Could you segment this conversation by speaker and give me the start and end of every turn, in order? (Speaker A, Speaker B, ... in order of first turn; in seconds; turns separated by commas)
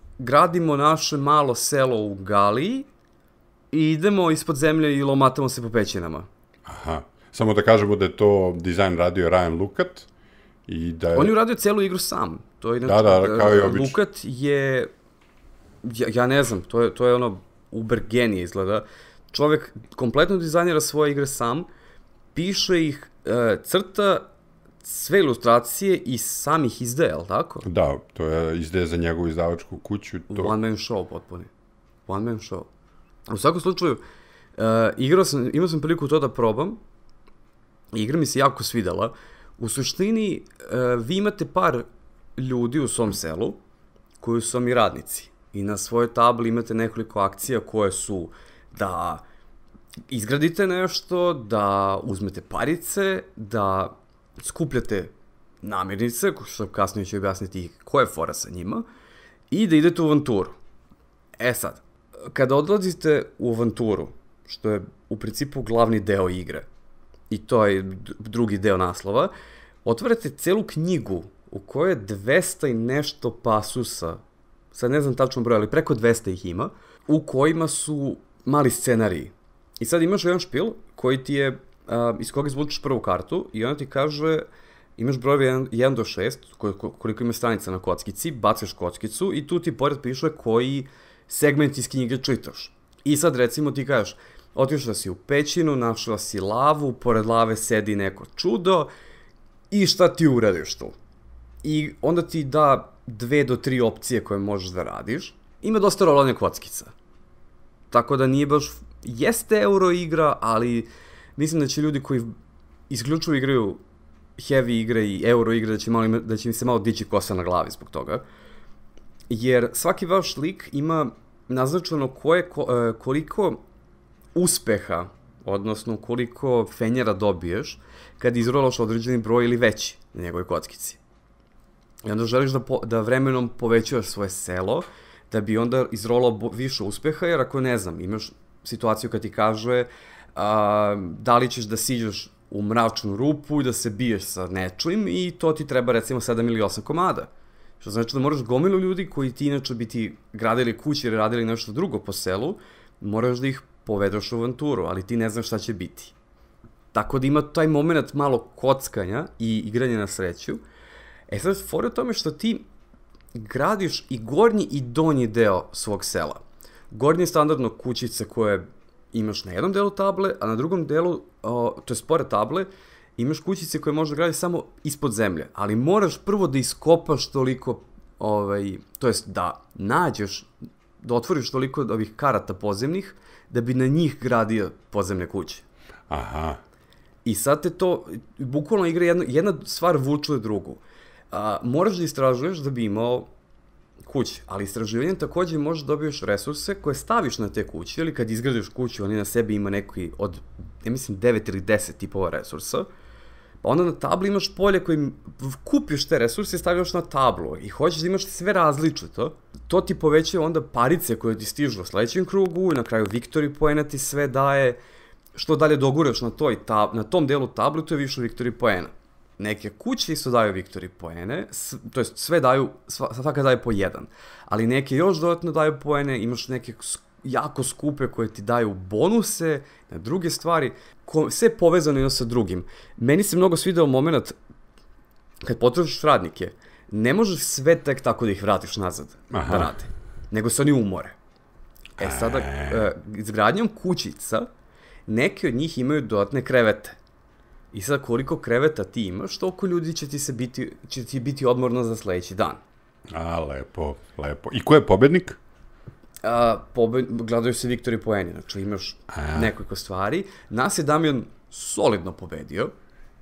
Speaker A: 0.2-2.9, Speaker A: 3.7-6.3, Speaker B: 6.7-10.1, Speaker B: 10.7-11.3, Speaker A: 11.1-14.9, Speaker B: 12.8-14.0, Speaker A: 15.8-21.7, Speaker A: 22.3-24.2, Speaker A: 24.8-27.6, Speaker B: 27.6-30.6, Speaker A: 30.3-31.5, Speaker A: 32.1-32.7, Speaker A: 33.3-34.0, Speaker A: 34.5-36.8, Speaker A: 37.9-43.6, Speaker A: 44.2-49.2, Speaker A: 50.1-58.8, Speaker A: 59.5-60.5, Speaker A: 61.4-66.7, Speaker A: 67.3-69.3, Speaker A: 69.8-74.2, Speaker A: 74.7-84.5, Speaker A: 85.0-98.9, Speaker A: 99.7-100.9, Speaker A: 101.6-106.9, Speaker A: 107.9-112.3, Speaker A: 112.9-113.8, Speaker A: 114.4-118.2, Speaker A: 119.3-123.6, Speaker A: 124.3-131.0, Speaker A: 132.0-156.1, Speaker A: 156.9-160.6, Speaker A: 161.3-162.7, Speaker A: 163.3-180.5, Speaker A: 181.0-185.6, Speaker B: 186.1-186.6, Speaker A: 187.2-193.3, Speaker A: 194.0-202.9, Speaker A: 203.6-214.8, Speaker A: 215.3-234.3, Speaker A: 235.4-241.1, Speaker B: 239.3-239.7, Speaker B: 242.0-242.9, Speaker A: 242.0-244.5, Speaker A: 245.1-247.0, Speaker A: 247.7-252.6, Speaker B: 253.1-255.4, Speaker A: 256.2-262.7, Speaker B: 259.1-259.5